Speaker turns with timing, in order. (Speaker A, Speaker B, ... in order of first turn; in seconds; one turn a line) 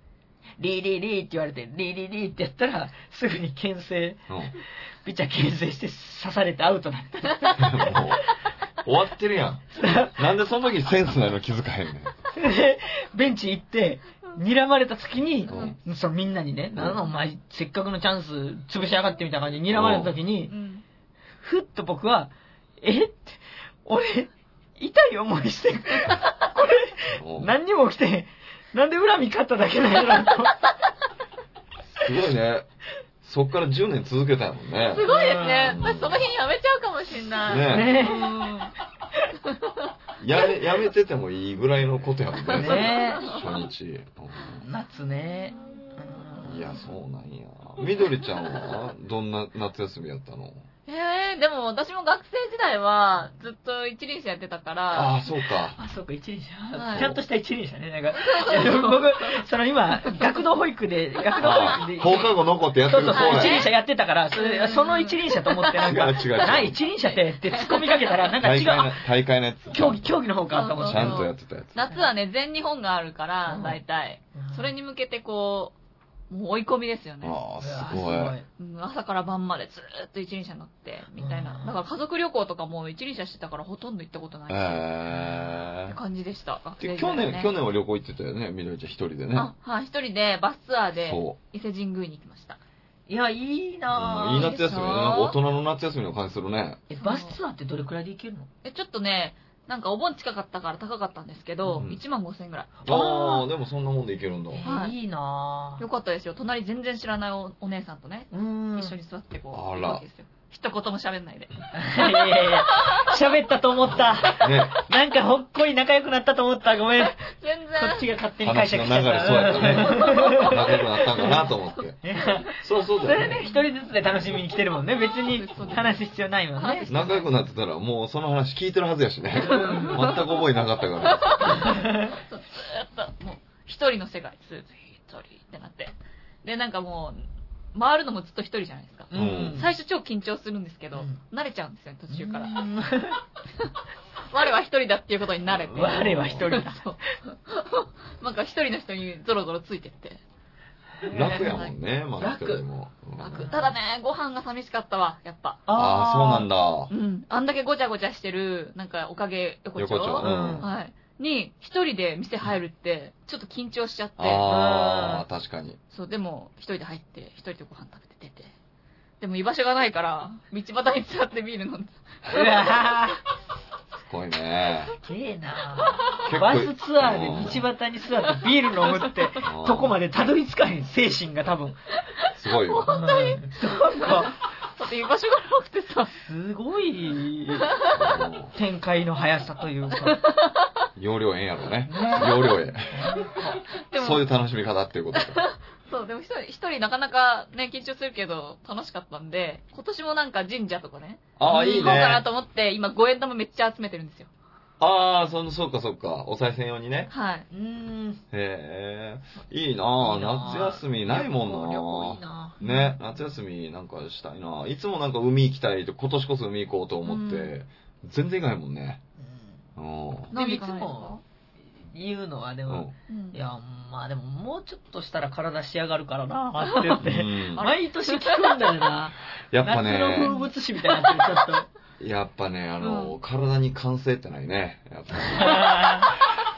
Speaker A: 0.6-4.2
Speaker B: 4.3-4.6
Speaker A: 5.0-8.0
Speaker B: 7.6-8.2
Speaker B: 8.8-12.2
Speaker A: 9.8-10.2
Speaker A: 12.3-20.5
Speaker C: 15.5-15.8
Speaker B: 15.5-15.8
Speaker B: 19.7-20.2
Speaker C: 20.5-20.9
Speaker A: 21.4-30.6
Speaker B: 27.2-27.5
Speaker B: 31.9-32.7
Speaker B: 33.2-35.1
Speaker C: 34.9-38.7
Speaker A: 35.0-35.8
Speaker B: 35.6-36.3
Speaker B: 37.4-37.9
Speaker A: 37.6-38.3
Speaker C: 39.5-39.9
Speaker B: 40.2-44.6
Speaker C: 42.5-43.4
Speaker A: 42.6-43.2
Speaker A: 44.6-46.7
Speaker B: 46.4-50.7
Speaker C: 50.9-55.3
Speaker B: 54.9-55.8
Speaker A: 55.8-69.0
Speaker C: 56.8-57.1
Speaker B: 56.9-57.2
Speaker C: 58.2-59.4
Speaker B: 61.4-63.6
Speaker C: 63.1-63.7
Speaker C: 64.4-65.9
Speaker B: 65.8-66.8
Speaker C: 66.6-68.1
Speaker B: 68.4-70.1
Speaker A: 69.7-71.3
Speaker C: 70.5-75.7
Speaker B: 70.8-71.8
Speaker A: 73.5-73.8
Speaker A: 74.4-74.7
Speaker C: 76.3-77.4
Speaker B: 77.2-78.4
Speaker A: 77.6-78.5
Speaker C: 78.6-84.9
Speaker A: 81.2-81.8
Speaker B: 84.5-86.0
Speaker A: 85.1-85.4
Speaker C: 85.8-87.5
Speaker B: 86.8-89.5
Speaker C: 89.3-92.6
Speaker B: 91.0-91.3
Speaker A: 93.1-94.6
Speaker B: 93.9-96.8
Speaker C: 94.3-95.4
Speaker A: 96.9-98.5
Speaker C: 97.0-97.4
Speaker C: 98.6-102.8
Speaker A: 102.8-103.5
Speaker B: 102.9-104.7
Speaker A: 104.5-105.8
Speaker C: 104.7-105.0
Speaker C: 105.8-113.1
Speaker A: 108.3-109.0
Speaker B: 109.5-110.0
Speaker A: 111.7-117.2
Speaker B: 114.2-114.8
Speaker C: 117.0-118.1
Speaker A: 117.8-121.3
Speaker B: 118.4-123.4
Speaker C: 119.5-121.8
Speaker A: 122.0-126.9
Speaker C: 125.2-125.9
Speaker B: 125.6-125.9
Speaker C: 126.6-127.3
Speaker B: 126.9-131.7
Speaker A: 129.4-130.0
Speaker C: 129.6-130.2
Speaker C: 131.0-142.7
Speaker A: 131.7-132.1
Speaker A: 139.1-139.7
Speaker B: 139.1-139.6
Speaker A: 142.1-143.2
Speaker C: 144.3-150.2
Speaker B: 145.5-146.5
Speaker A: 145.8-146.8
Speaker A: 151.0-151.6
Speaker B: 151.1-153.6
Speaker C: 151.4-151.7
Speaker A: 152.2-152.6
Speaker C: 153.2-155.6
Speaker A: 153.4-153.7
Speaker A: 155.7-156.5
Speaker B: 155.7-156.9
Speaker C: 156.9-164.5
Speaker B: 159.8-160.7
Speaker A: 160.2-160.7
Speaker B: 164.2-165.8
Speaker A: 164.5-165.2
Speaker C: 165.9-168.5
Speaker C: 169.2-172.5
Speaker A: 172.3-173.2
Speaker B: 174.0-174.9
Speaker A: 175.0-181.8
Speaker B: 176.3-177.7
Speaker B: 179.4-180.0
Speaker B: 182.3-182.9
Speaker C: 182.8-186.1
Speaker A: 182.9-184.4
Speaker A: 186.1-187.8
Speaker B: 187.9-188.5
Speaker A: 188.5-190.2
Speaker C: 190.1-190.7
Speaker B: 191.0-193.2
Speaker A: 191.9-193.4
Speaker C: 193.3-194.2
Speaker B: 193.9-195.4
Speaker C: 195.2-204.3
Speaker B: 201.4-202.2
Speaker A: 201.5-201.8
Speaker B: 204.8-207.1
Speaker C: 207.1-207.5
Speaker A: 207.5-208.2
Speaker B: 208.3-219.0
Speaker A: 210.0-212.6
Speaker C: 212.6-213.0
Speaker C: 217.1-217.5
Speaker A: 219.2-219.6
Speaker B: 219.8-220.3
Speaker C: 220.3-221.2
Speaker A: 220.3-231.7
Speaker B: 222.7-222.9
Speaker C: 223.1-223.4
Speaker C: 226.6-227.0
Speaker B: 227.0-227.7
Speaker C: 227.6-228.6
Speaker B: 229.5-230.3
Speaker C: 230.2-231.5
Speaker B: 232.0-235.7
Speaker C: 232.8-233.2
Speaker A: 235.4-236.1